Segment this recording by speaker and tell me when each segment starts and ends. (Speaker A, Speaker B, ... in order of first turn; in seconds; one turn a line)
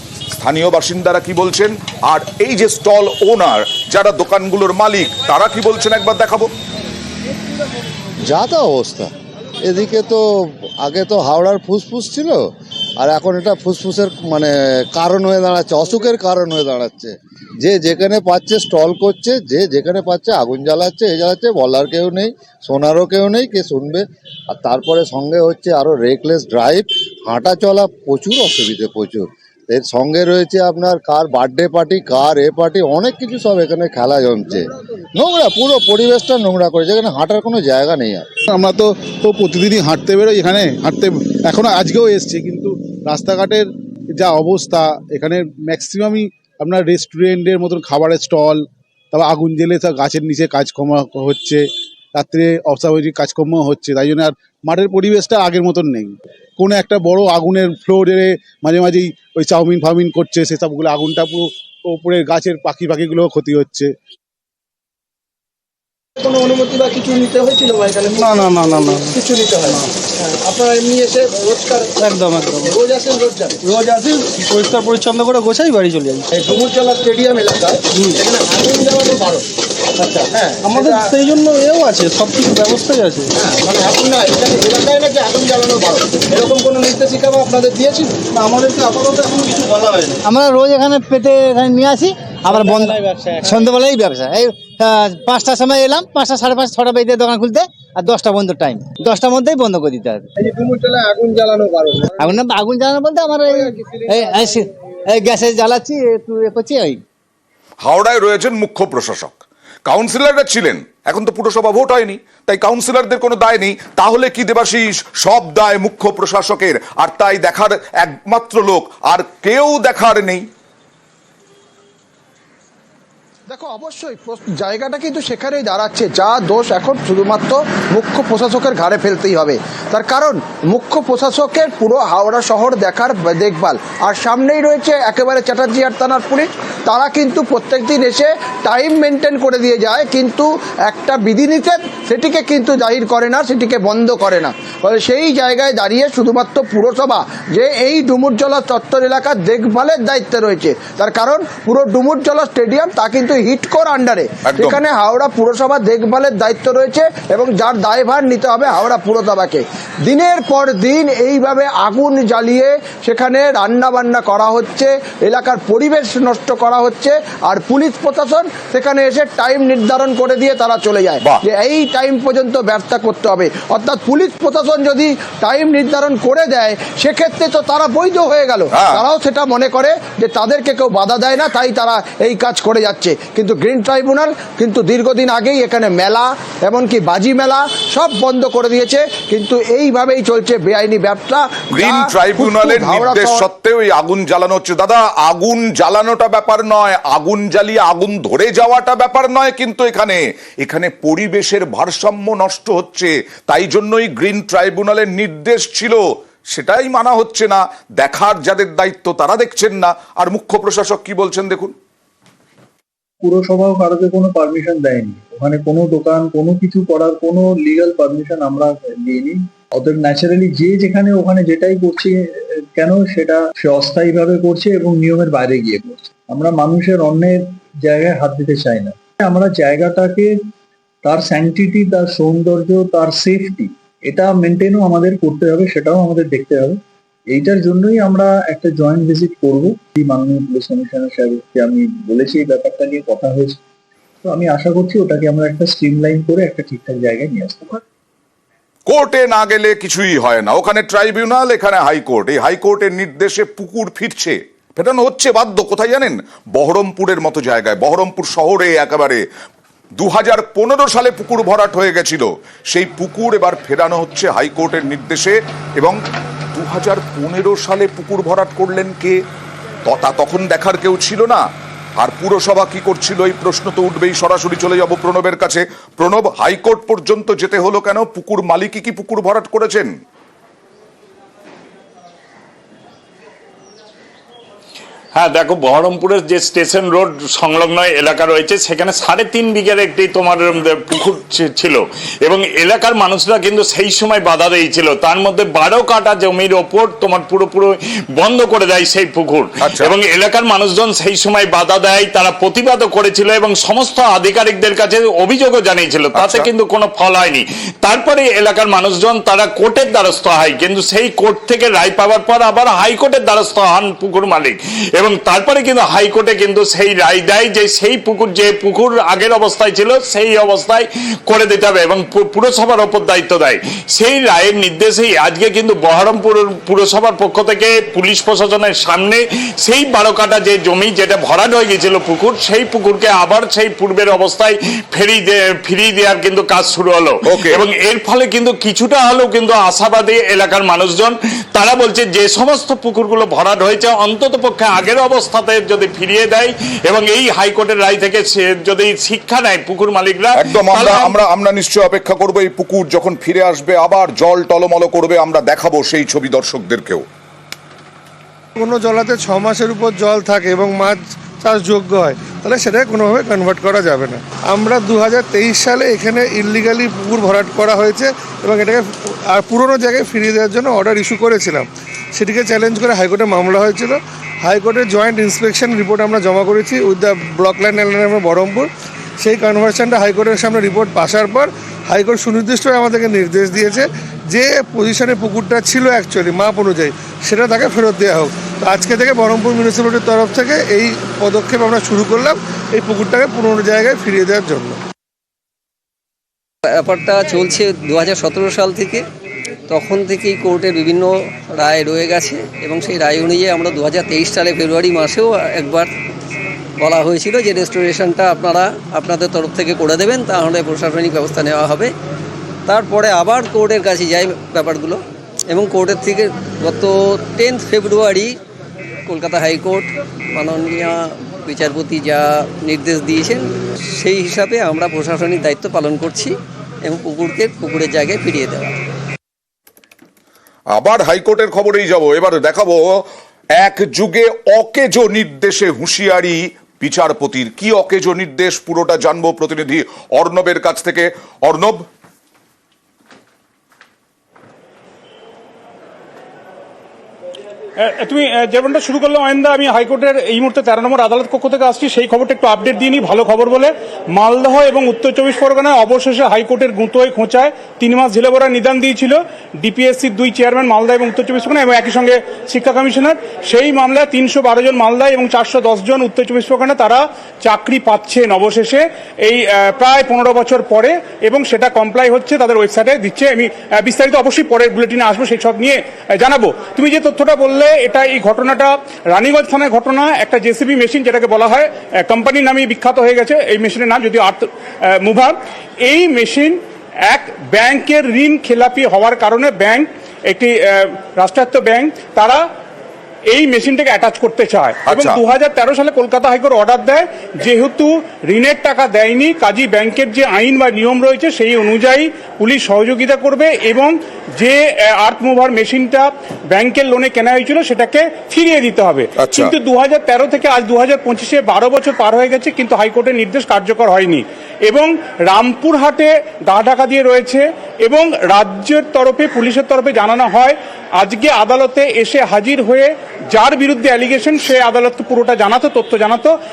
Speaker A: 0.3-6.5
Speaker B: 8.3-9.1
Speaker B: 9.6-12.4
Speaker B: 13.0-38.3
Speaker C: 38.5-63.9
Speaker D: 66.2-73.8
Speaker E: 68.2-69.1
Speaker E: 72.0-72.7
Speaker E: 73.7-76.2
Speaker D: 76.3-79.5
Speaker D: 80.0-81.2
Speaker E: 80.6-83.3
Speaker D: 83.4-90.1
Speaker F: 90.2-100.3
Speaker D: 100.4-102.3
Speaker F: 102.2-107.0
Speaker D: 104.0-104.5
Speaker A: 107.8-120.4
Speaker D: 123.5-193.5
Speaker A: 154.4-154.8
Speaker A: 178.7-179.0
Speaker A: 191.7-206.0
Speaker A: 206.5-211.7
Speaker G: 213.2-222.2
Speaker G: 222.8-230.3
Speaker G: 231.0-243.6
Speaker G: 244.2-247.8
Speaker A: 248.9-259.2
Speaker A: 260.0-266.0
Speaker A: 266.6-269.2
Speaker A: 269.8-271.4
Speaker A: 272.0-279.9
Speaker H: 285.1-351.1
Speaker A: 299.6-299.9
Speaker A: 306.1-306.5
Speaker A: 337.3-337.6
Speaker A: 350.4-357.1
Speaker I: 358.6-371.6
Speaker I: 372.2-378.7
Speaker I: 379.2-394.8
Speaker J: 396.7-399.0
Speaker J: 399.7-405.9
Speaker J: 406.8-411.9
Speaker J: 412.7-418.3
Speaker J: 419.1-428.8
Speaker A: 430.7-433.0
Speaker A: 433.6-441.8
Speaker K: 447.8-492.4
Speaker K: 493.3-526.3
Speaker A: 494.9-495.2
Speaker A: 509.2-509.5